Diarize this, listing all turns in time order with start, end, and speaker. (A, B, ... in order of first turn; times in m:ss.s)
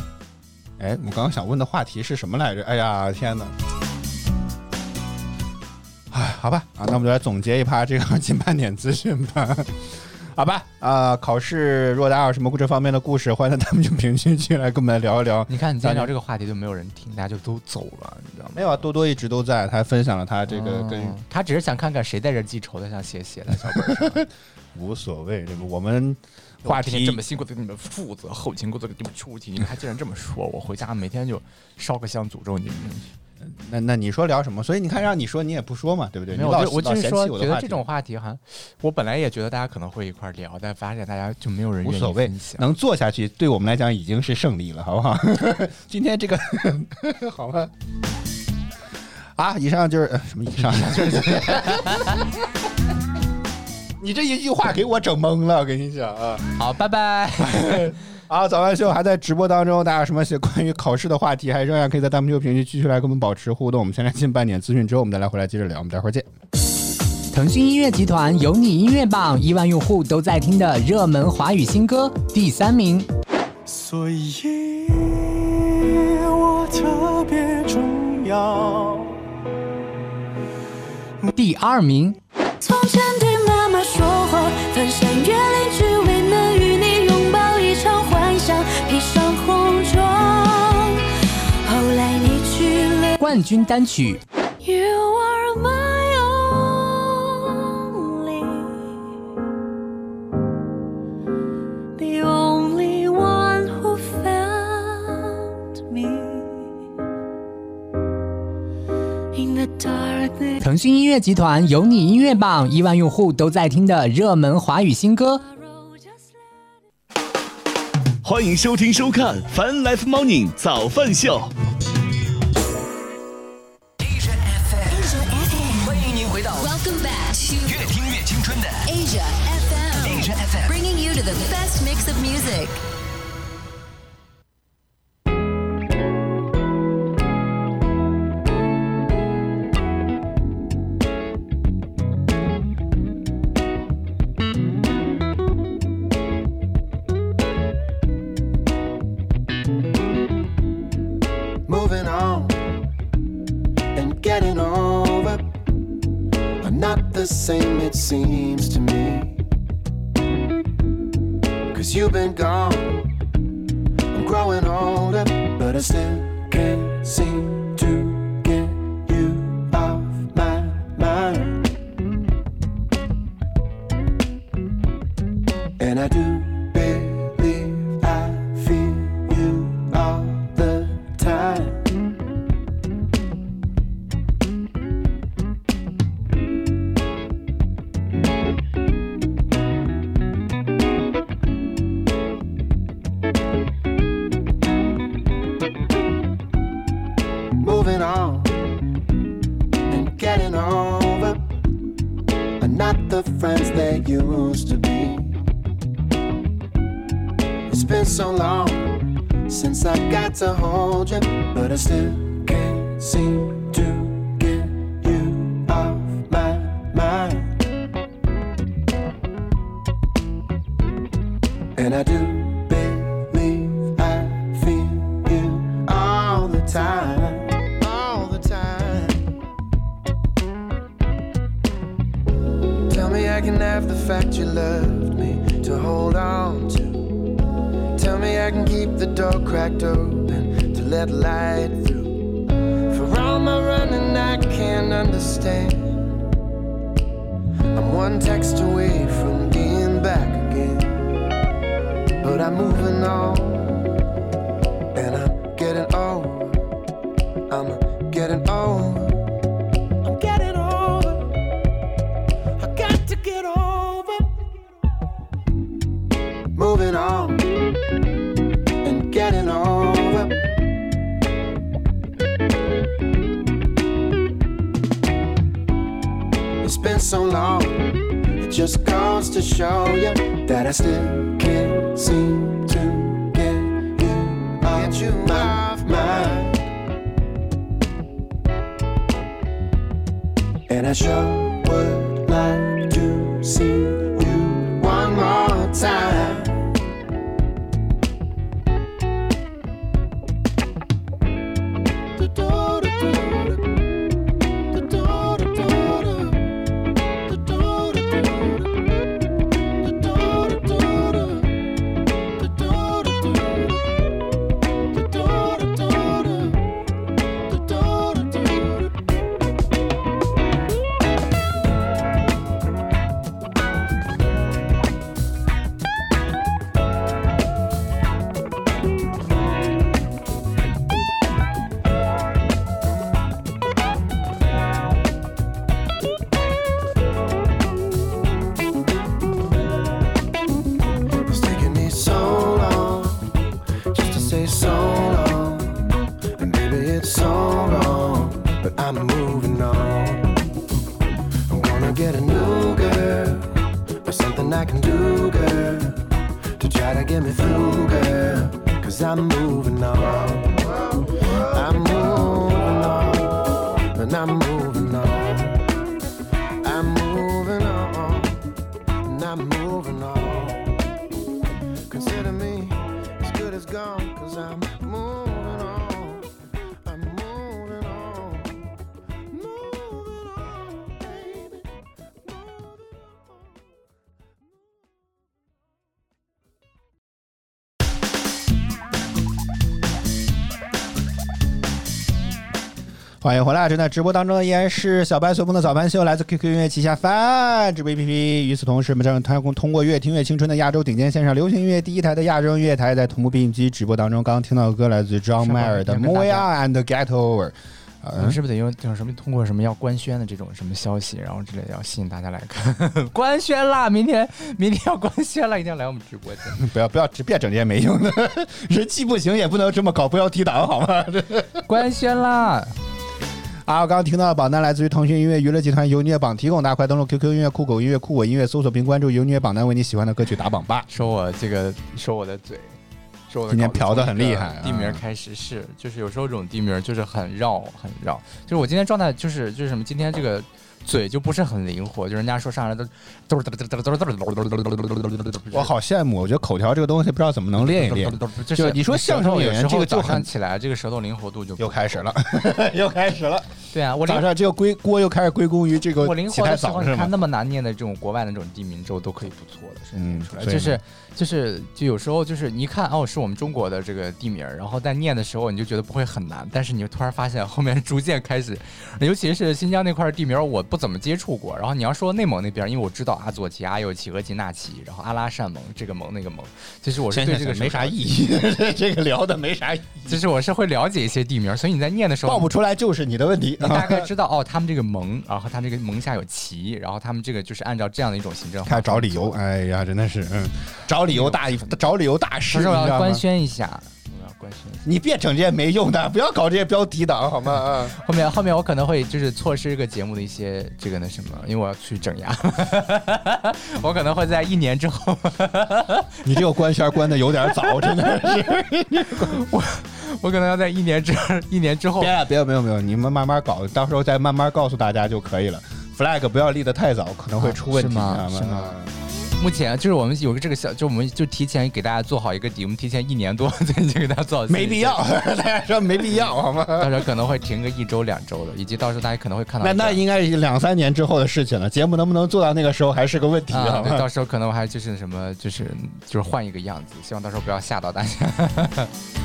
0:00.8-0:03.5 A
0:06.1-0:16.1 A
0:15.5-0:18.8 B
0:18.5-0:21.2 A
0:20.5-0:24.2 B
0:23.6-0:27.2 A
0:26.6-0:33.1 B
0:33.4-0:37.8 A
0:36.3-0:42.6 B
0:41.8-0:47.7 A
0:49.4-0:52.2 A
0:50.6-0:52.2 B
0:54.0-0:56.5 A
0:56.6-0:57.9 B
0:57.4-1:06.3 A
1:07.3-1:13.1 C
1:14.6-1:15.9 D
1:17.8-1:18.4 D
1:21.3-1:22.2 C
1:22.6-1:33.3 D
1:33.2-1:34.2 C
1:34.6-1:38.8 D
1:42.0-1:46.6 D
1:49.3-1:50.6 D
1:50.6-1:55.4 C
1:55.6-1:56.2 D
1:58.2-2:01.5 E
2:04.0-2:05.2 F
2:05.0-2:05.7 D
2:05.7-2:06.7 F
2:06.6-2:07.9 G
2:07.6-2:08.9 F
2:08.8-2:12.8 G
2:10.0-2:10.7 F
2:31.7-2:32.8 H
2:33.9-2:35.5 H
2:36.6-2:39.4 H
2:41.7-2:43.1 H
2:44.1-2:51.7 H
2:55.8-3:02.0 H
3:17.6-3:18.7 H
3:19.9-3:21.4 H
3:22.6-3:25.4 H
3:27.7-3:37.6 H
3:41.8-3:49.4 H
3:52.9-3:57.3 H
3:57.9-4:06.2 H
4:07.7-4:11.2 H
4:12.2-4:14.0 H
4:14.9-4:16.7 H
4:17.5-4:19.3 H
4:20.0-4:21.4 H
4:22.6-4:24.5 H
4:26.5-4:27.6 H
4:28.8-4:30.4 H
4:36.6-4:46.7 H
4:50.7-4:56.7 H
5:02.2-5:03.7 H
5:04.7-5:06.4 H
5:07.2-5:08.9 H
5:09.8-5:11.6 H
5:12.4-5:13.8 H
5:14.9-5:16.6 H
5:17.5-5:18.9 H
5:41.2-5:43.4 H
5:43.9-5:50.4 H
5:51.5-6:05.6 H
6:06.6-6:08.5 H
6:09.0-6:10.9 H
6:11.9-6:18.7 H
6:19.3-6:21.7 H
6:22.2-6:23.4 H
6:33.2-6:48.4 A
6:45.4-6:46.5 B
6:48.2-6:56.6 B
6:56.5-7:01.6 A
7:01.7-7:02.7 B
7:03.6-7:10.9 A
7:10.9-7:12.8 B
7:13.3-7:25.7 B
7:13.5-7:15.0 A
7:25.5-7:30.3 A
7:27.7-7:32.0 B
7:31.6-7:33.5 A
7:33.7-7:34.3 B
7:34.0-7:37.1 A
7:36.0-7:58.1 B
7:40.0-7:40.8 A
7:57.1-8:00.2 A
8:00.0-8:02.5 B
8:02.2-8:04.1 A
8:03.6-8:09.4 B
8:08.6-8:13.2 A
8:11.1-8:11.8 B
8:12.5-8:14.8 B
8:14.8-8:18.0 A
8:17.9-8:26.2 B
8:26.2-8:29.4 A
8:27.6-8:28.1 B
8:29.0-8:32.2 B
8:32.0-8:38.9 A
8:37.4-8:38.7 B
8:39.4-8:45.0 B
8:44.5-8:47.1 A
8:46.8-8:50.0 B
8:49.6-8:54.1 A
8:53.5-8:58.9 B